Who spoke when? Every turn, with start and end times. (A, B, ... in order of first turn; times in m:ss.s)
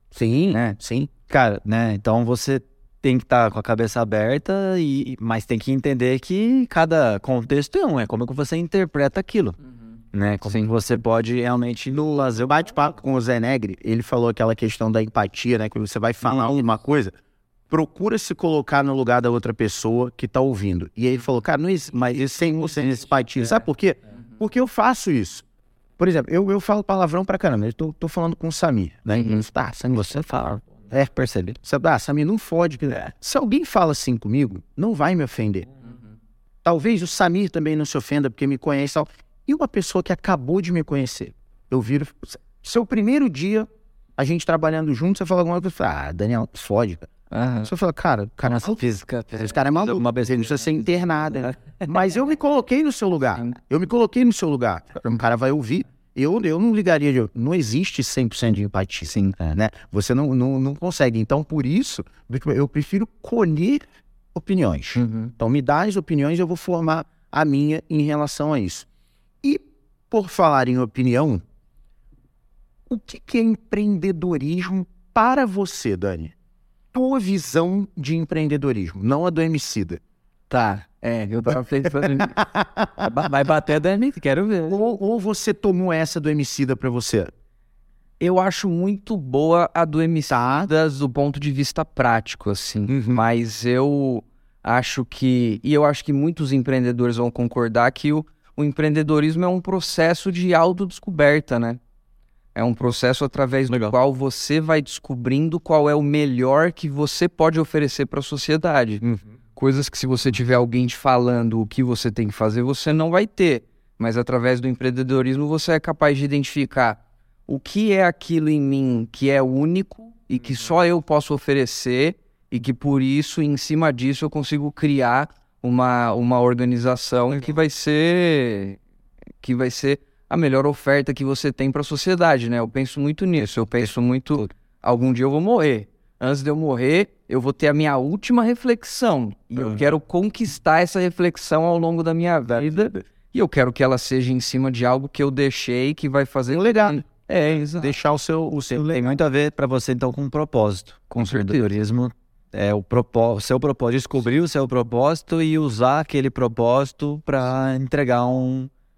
0:00.1-0:01.1 A
0:00.5-0:00.8 B
0:01.3-0:09.6 C
0:10.1-0:12.3 C
0:10.4-0:10.7 B
0:12.0-0:17.1 A
0:17.7-0:25.4 A
0:26.0-0:30.2 A
0:29.1-0:29.4 C
0:30.0-0:31.6 C
0:31.6-0:35.7 A
0:36.6-0:47.1 A
0:47.3-0:47.7 B
0:47.6-0:48.8 A
0:48.5-0:50.6 C
0:49.3-1:03.8 A
0:59.1-0:59.4 B
1:04.4-1:08.9 A
1:05.0-1:05.3 B
1:09.4-1:11.4 A
1:12.9-1:16.3 A
1:16.9-1:20.0 A
1:20.5-1:22.4 B
1:22.0-1:23.3 A
1:23.0-1:24.8 C
1:24.7-1:27.3 A
1:28.2-1:41.8 B
1:30.3-1:30.7 A
1:32.9-1:33.2 A
1:42.6-1:49.0 B
1:43.7-1:44.0 C
1:49.6-2:08.8 B
2:09.4-2:28.0 B
2:22.6-2:22.9 C
2:26.5-2:27.0 A
2:27.8-2:29.0 A
2:28.8-2:38.7 C
2:31.1-2:31.6 B